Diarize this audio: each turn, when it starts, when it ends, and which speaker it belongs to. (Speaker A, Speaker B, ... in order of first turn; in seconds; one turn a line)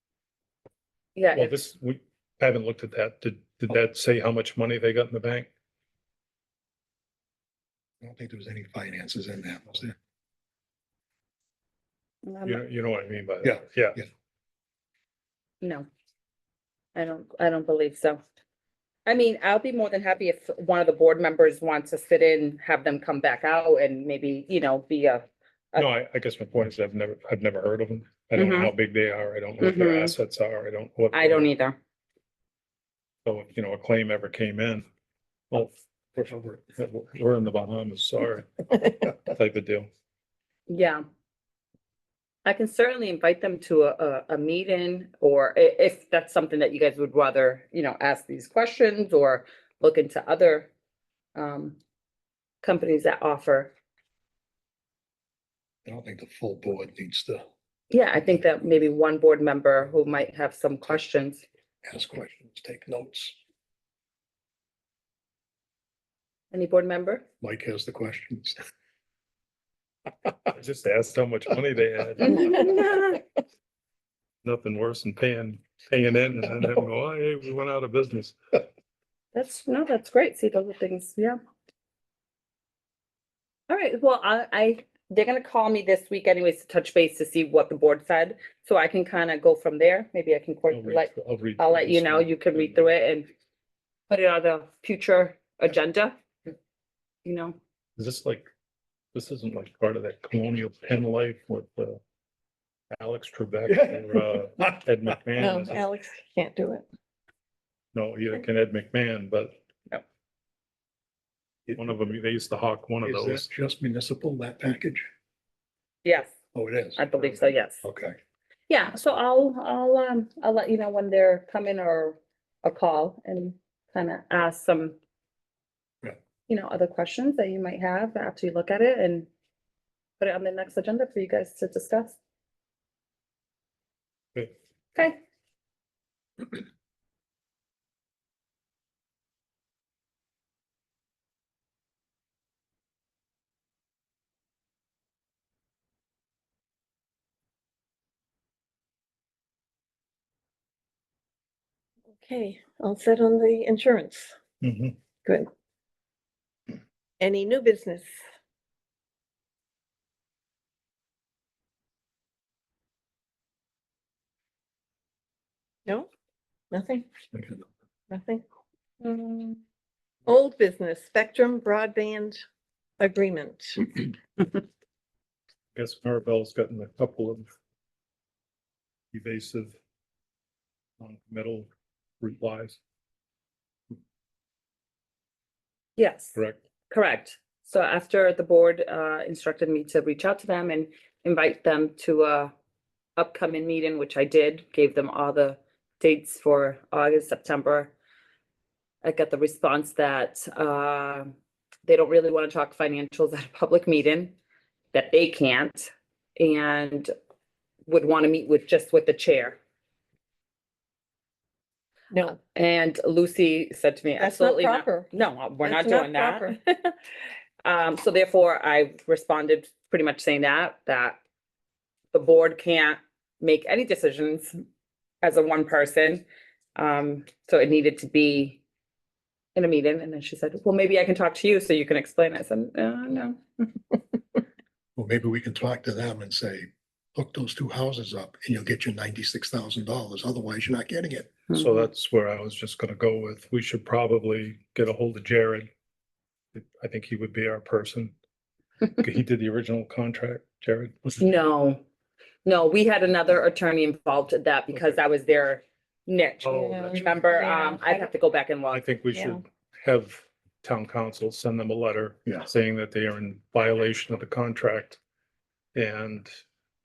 Speaker A: 1.1-1.6
Speaker B: 1.3-5.5
Speaker C: 8.0-9.9
Speaker A: 12.2-12.6
Speaker B: 12.4-14.0
Speaker C: 13.4-14.0
Speaker A: 16.9-18.2
Speaker A: 19.1-25.9
Speaker B: 25.8-31.5
Speaker A: 28.3-28.7
Speaker A: 29.6-30.1
Speaker A: 31.1-31.8
Speaker B: 33.2-34.8
Speaker B: 35.5-39.9
Speaker A: 40.7-41.0
Speaker A: 42.4-50.7
Speaker A: 51.3-51.8
Speaker A: 52.6-53.7
Speaker C: 55.9-57.4
Speaker A: 57.9-61.4
Speaker C: 61.8-63.4
Speaker A: 66.5-67.2
Speaker C: 67.4-68.6
Speaker B: 70.5-72.8
Speaker A: 72.2-73.2
Speaker B: 74.4-78.4
Speaker A: 79.3-81.4
Speaker A: 83.7-93.3
Speaker B: 90.7-92.9
Speaker A: 94.1-96.1
Speaker A: 97.2-97.5
Speaker B: 98.0-98.4
Speaker B: 99.1-102.0
Speaker B: 102.9-105.8
Speaker C: 103.7-104.6
Speaker D: 105.4-106.8
Speaker B: 107.9-109.5
Speaker B: 111.8-113.4
Speaker C: 113.0-115.0
Speaker A: 116.0-116.3
Speaker C: 116.5-117.1
Speaker A: 117.0-117.8
Speaker C: 117.8-118.2
Speaker A: 118.7-125.0
Speaker A: 126.5-129.3
Speaker A: 130.2-132.2
Speaker D: 152.1-154.3
Speaker B: 154.6-154.9
Speaker D: 157.2-158.1
Speaker D: 166.7-167.1
Speaker D: 168.1-168.4
Speaker D: 169.0-169.6
Speaker D: 170.2-172.4
Speaker D: 173.0-174.1
Speaker B: 175.7-177.5
Speaker B: 179.1-179.8
Speaker B: 181.0-181.7
Speaker B: 182.2-182.8
Speaker A: 186.0-186.4
Speaker A: 186.9-192.5
Speaker A: 193.2-197.9
Speaker A: 199.0-201.3
Speaker A: 201.8-204.3
Speaker A: 204.9-207.1
Speaker A: 207.9-209.6
Speaker D: 212.1-212.4
Speaker A: 212.5-216.5
Speaker D: 214.2-215.1
Speaker D: 215.6-216.9
Speaker A: 217.6-221.2
Speaker A: 222.1-224.6
Speaker A: 225.2-226.2
Speaker A: 226.8-228.6
Speaker A: 229.5-234.0
Speaker C: 234.9-241.3
Speaker B: 241.5-245.7
Speaker B: 246.5-248.1
Speaker B: 249.0-251.2
Speaker A: 251.2-251.8
Speaker A: 252.4-258.8
Speaker B: 256.4-257.0
Speaker D: 256.5-258.0
Speaker B: 258.7-265.0
Speaker D: 259.1-259.4
Speaker B: 265.7-266.3